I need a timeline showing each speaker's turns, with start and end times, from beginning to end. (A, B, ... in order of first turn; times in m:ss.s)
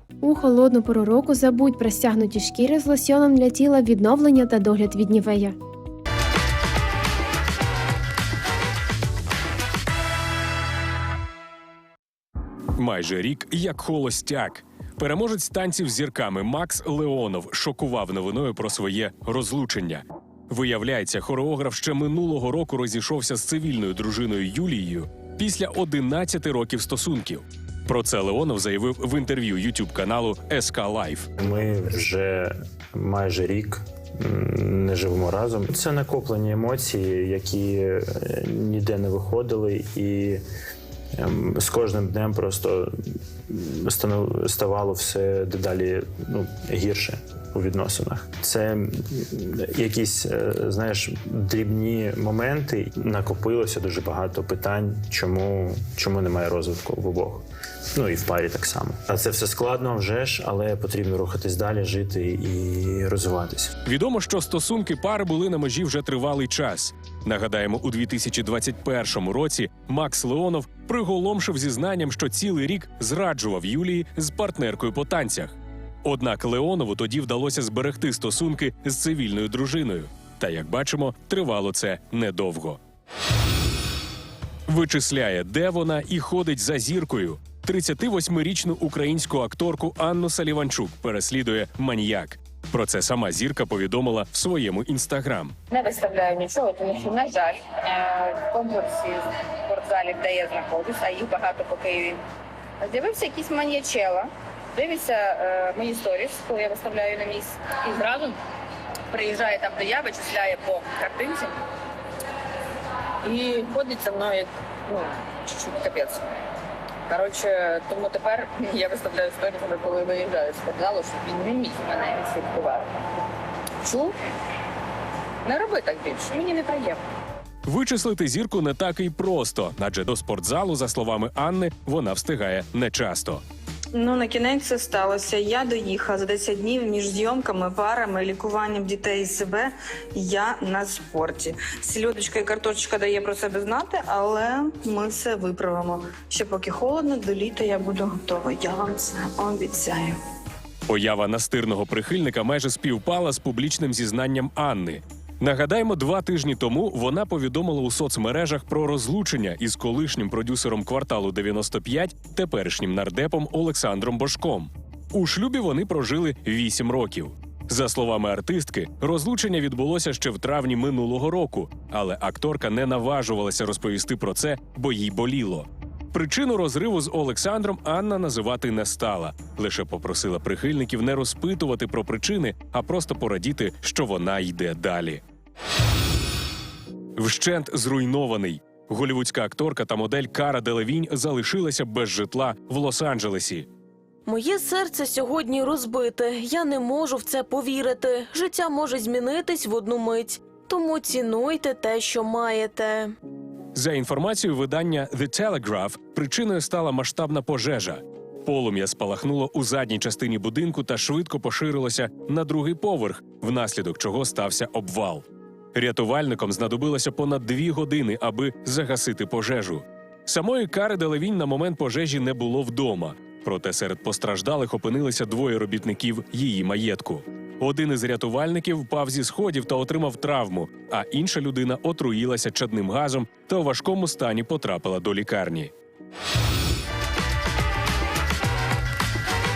0:00.2-0:05.6 A
0:12.8-0:31.3 B
0:31.4-0:40.4 C
0:41.2-0:42.9 C
0:43.5-0:57.4 C
0:57.9-1:03.7 C
1:03.8-1:15.5 B
1:16.0-1:22.8 B
1:24.7-1:35.6 B
1:35.7-1:42.2 D
1:42.8-1:48.4 D
1:49.1-1:51.6 D
1:53.2-1:56.3 D
1:57.1-2:02.9 D
2:03.8-2:04.1 D
2:05.4-2:07.0 D
2:07.6-2:13.4 B
2:13.9-2:30.2 E
2:30.9-3:05.2 B
3:07.2-3:13.7 B
3:14.2-3:23.1 F
3:23.7-3:55.7 B